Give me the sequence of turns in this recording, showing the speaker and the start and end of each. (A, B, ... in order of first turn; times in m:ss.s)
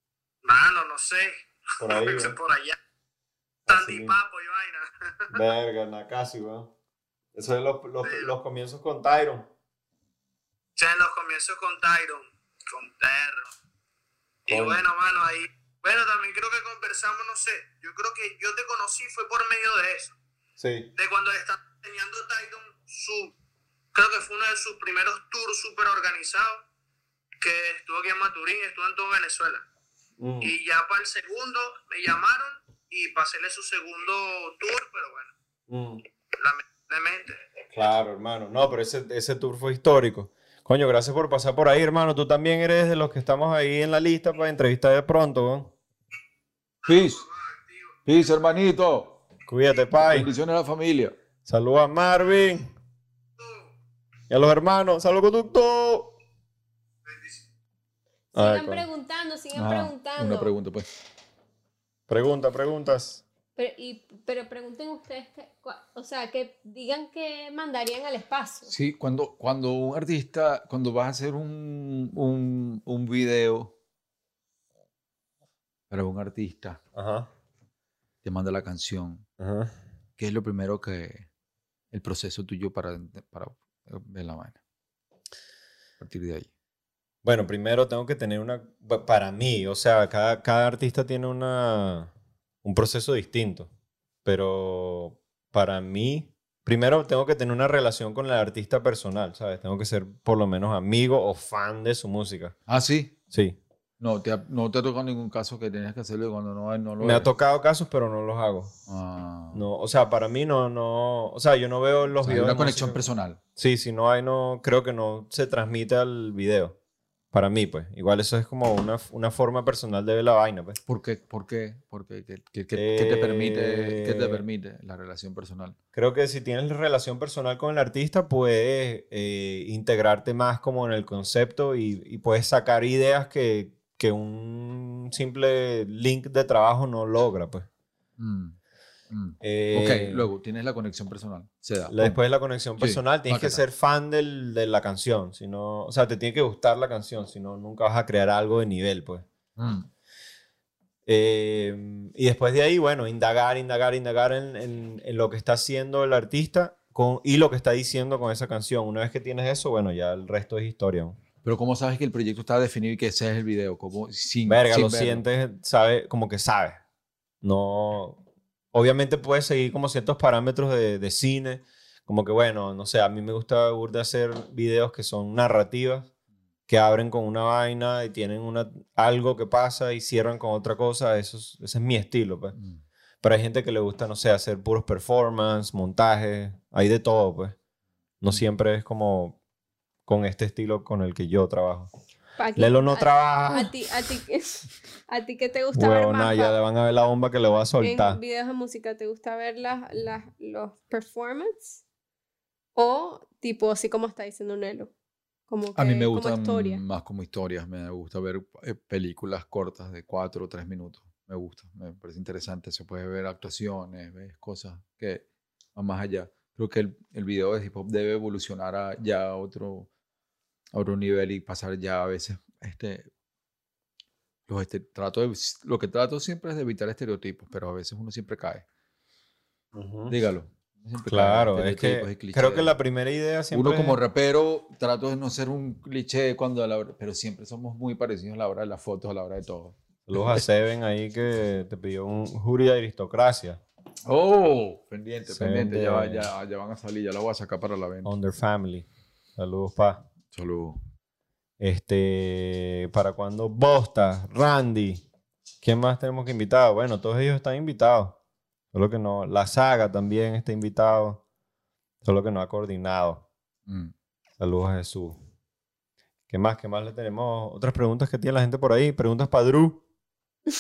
0:00.4-0:02.8 A
0:01.8-0:02.4 B
0:03.6-0:04.2 B
0:03.7-0:05.4 A
0:05.3-0:06.7 B
0:07.3-0:09.5 B
0:08.0-0:08.3 A
0:10.8-0:13.5 A
0:14.5-0:20.1 A
0:14.5-0:14.8 B
0:20.6-0:20.9 B
0:21.0-0:23.4 A
0:23.9-0:26.6 A
0:27.4-0:29.6 A
0:30.2-0:30.5 B
0:30.4-0:35.3 A
0:35.7-0:36.0 B
0:36.4-0:37.4 A
0:37.7-0:45.7 B
0:46.8-0:47.2 C
0:46.8-0:48.0 A
0:48.0-0:49.2 C
0:49.5-0:50.3 B
0:50.0-0:51.2 C
0:51.4-0:52.7 B
0:53.4-0:53.7 A
0:54.3-0:56.1 B
0:57.0-0:57.4 A
0:58.3-1:00.5 D
0:58.3-0:58.8 B
0:59.5-1:00.9 C
1:02.1-1:03.2 B
1:03.6-1:08.7 D
1:08.7-1:13.7 C
1:15.9-1:16.8 C
1:16.9-1:17.3 B
1:18.2-1:19.2 C
1:19.4-1:19.7 B
1:20.2-1:21.3 C
1:21.9-1:24.6 C
1:26.0-1:26.5 C
1:27.2-1:32.1 B
1:32.6-1:33.7 B
1:34.2-1:42.6 B
1:42.7-1:43.1 C
1:43.3-1:43.6 B
1:44.0-1:47.3 C
1:47.0-1:48.7 B
1:48.9-1:49.6 C
1:49.5-1:53.0 B
1:52.2-1:53.4 C
1:53.6-1:56.8 B
1:57.3-2:00.8 B
2:00.8-2:05.8 C
2:02.7-2:04.4 B
2:05.9-2:17.7 B
2:18.2-2:18.6 C
2:19.1-2:22.2 C
2:19.4-2:20.3 B
2:21.9-2:29.2 B
2:22.8-2:23.6 C
2:29.6-2:29.9 C
2:31.0-2:41.2 B
2:41.4-2:45.2 C
2:44.4-2:46.8 B
2:47.4-2:48.2 B
2:48.7-2:56.1 B
2:56.7-3:02.6 B
3:03.2-3:07.6 B
3:08.2-3:09.4 B
3:10.0-3:11.9 B
3:12.4-3:16.6 D
3:12.6-3:13.7 B
3:15.7-3:18.2 B
3:17.8-3:21.8 D
3:22.7-3:24.9 D
3:25.5-3:26.8 D
3:25.8-3:39.9 C
3:40.7-3:43.1 C
3:44.5-3:48.6 C
3:49.7-3:50.2 B
3:50.1-3:52.8 C
3:51.1-3:54.0 B
3:53.5-4:00.4 C
4:00.1-4:03.6 B
4:04.0-4:08.1 C
4:05.3-4:06.3 B
4:08.0-4:10.0 B
4:10.3-4:10.8 C
4:11.6-4:15.0 B
4:15.6-4:18.2 B
4:18.7-4:21.2 B
4:22.0-4:23.2 B
4:23.7-4:23.9 C
4:24.4-4:25.2 B
4:26.3-4:29.8 B